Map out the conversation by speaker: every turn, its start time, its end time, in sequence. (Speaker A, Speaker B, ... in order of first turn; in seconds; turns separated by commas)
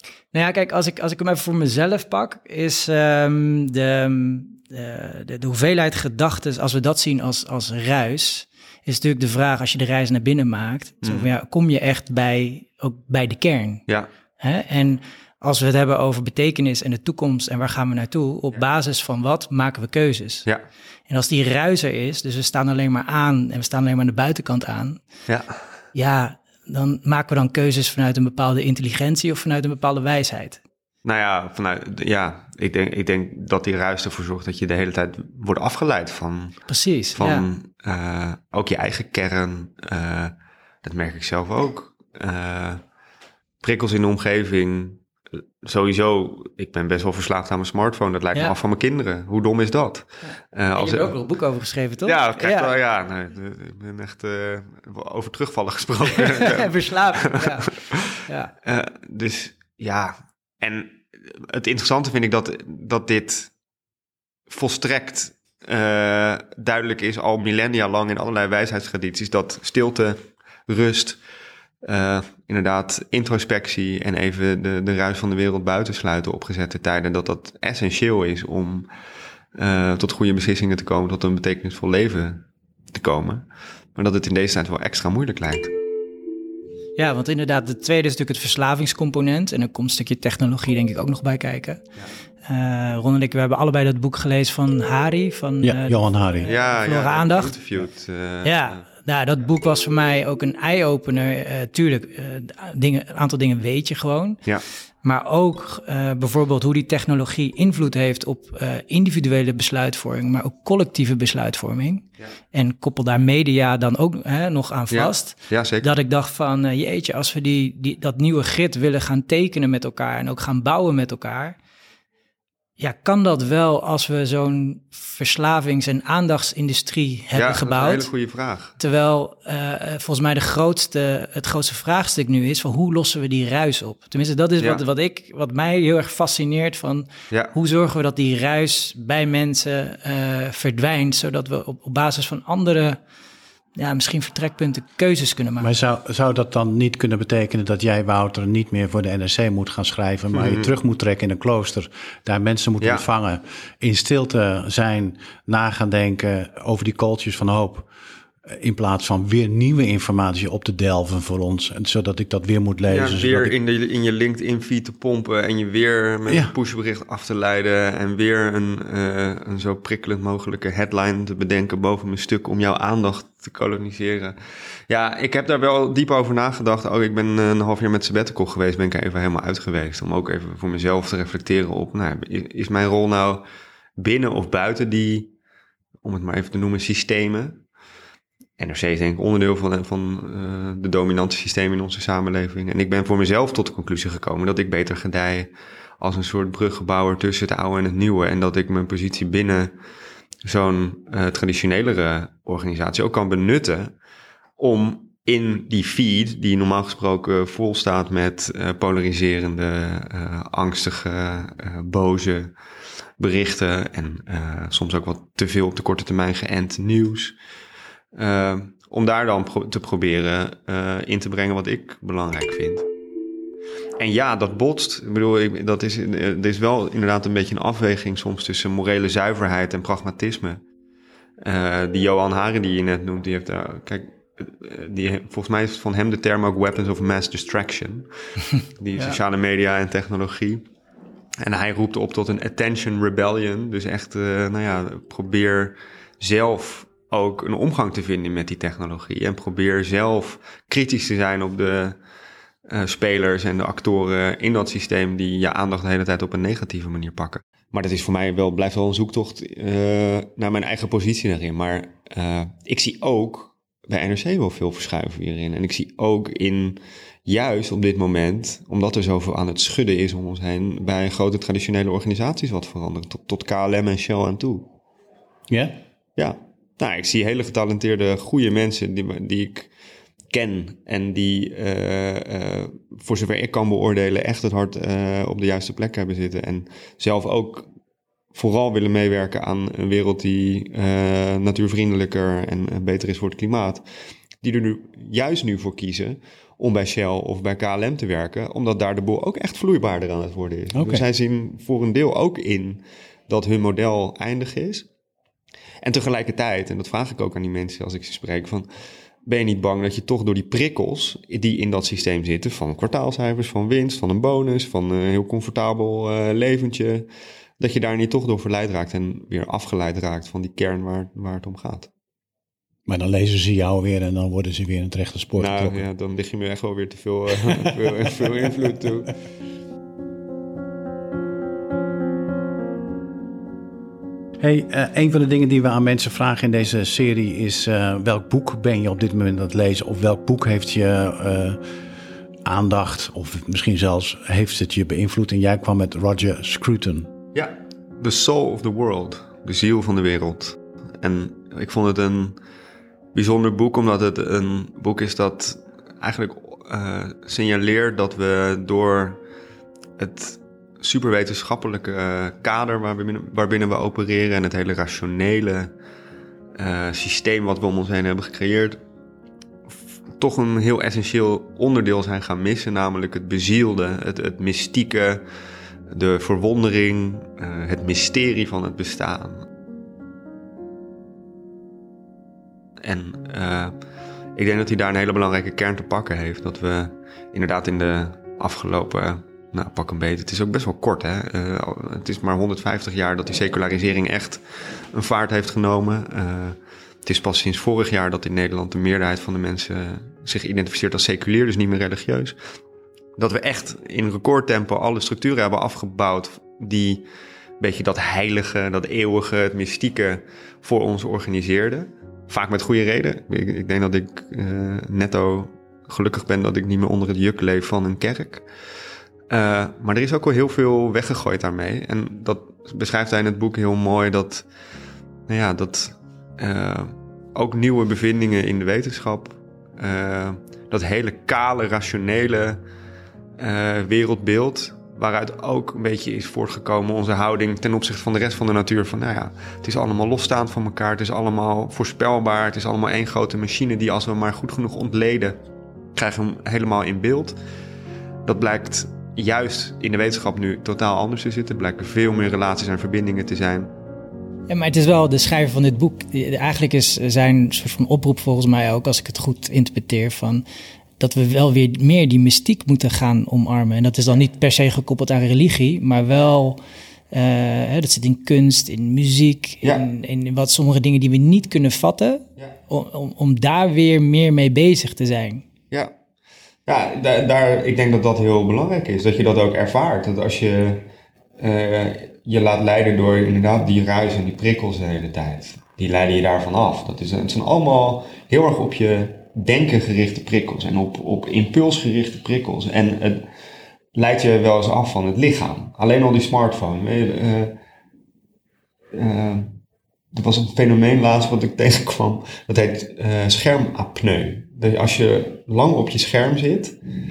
Speaker A: 0.3-13.8, Speaker B: 11.0-11.3, Speaker A: 14.4-20.4, Speaker A: 21.1-25.0, Speaker B: 25.3-25.6, Speaker A: 25.9-30.6, Speaker B: 31.0-36.6, Speaker A: 36.7-37.5, Speaker B: 37.1-42.8, Speaker B: 43.6-45.0, Speaker B: 45.6-51.1, Speaker A: 50.7-52.7, Speaker B: 52.0-63.5, Speaker A: 56.1-58.5, Speaker B: 64.5-71.2, Speaker B: 71.8-78.9, Speaker B: 79.5-85.7, Speaker A: 87.0-91.8, Speaker A: 92.4-97.6, Speaker C: 95.6-96.5, Speaker B: 96.4-98.8, Speaker A: 98.4-104.4, Speaker A: 105.0-121.5, Speaker B: 114.9-115.9, Speaker A: 122.8-128.1, Speaker B: 127.3-128.8, Speaker A: 128.8-143.0, Speaker A: 143.8-145.7, Speaker C: 145.6-157.9, Speaker B: 150.3-150.7, Speaker B: 152.8-153.0, Speaker C: 158.5-163.5, Speaker B: 162.9-174.3, Speaker C: 166.3-166.5, Speaker B: 174.9-183.4, Speaker B: 184.0-185.3, Speaker B: 186.0-187.6, Speaker B: 188.6-199.7, Speaker B: 200.4-203.9, Speaker B: 204.6-212.5, Speaker B: 213.2-217.3, Speaker B: 218.1-222.9, Speaker B: 224.0-230.6, Speaker B: 231.4-238.1, Speaker B: 238.8-240.6, Speaker B: 241.4-252.0, Speaker B: 252.7-274.7, Speaker C: 275.5-275.7, Speaker B: 276.1-279.7, Speaker B: 280.3-287.7, Speaker B: 288.3-293.8, Speaker B: 294.4-304.9, Speaker C: 300.7-301.0, Speaker B: 305.8-308.7, Speaker B: 309.2-317.1, Speaker B: 317.6-321.9, Speaker C: 322.9-325.8, Speaker B: 325.4-329.1, Speaker C: 334.4-341.6, Speaker C: 342.4-347.1, Speaker B: 347.3-352.4, Speaker B: 353.1-359.2, Speaker B: 360.0-365.7, Speaker B: 366.6-368.8, Speaker B: 369.7-375.2, Speaker B: 375.9-379.5, Speaker B: 382.8-383.7, Speaker B: 384.4-394.4, Speaker B: 394.9-402.4, Speaker B: 403.2-407.1, Speaker B: 407.6-418.4, Speaker B: 419.3-424.5, Speaker B: 425.3-432.6, Speaker B: 433.4-445.4, Speaker B: 445.9-447.4, Speaker B: 448.2-453.7, Speaker A: 454.5-460.4, Speaker A: 461.0-466.6, Speaker A: 467.1-475.4, Speaker B: 476.7-480.9, Speaker B: 481.4-493.2, Speaker B: 493.9-497.5, Speaker B: 498.9-499.6, Speaker B: 500.1-506.8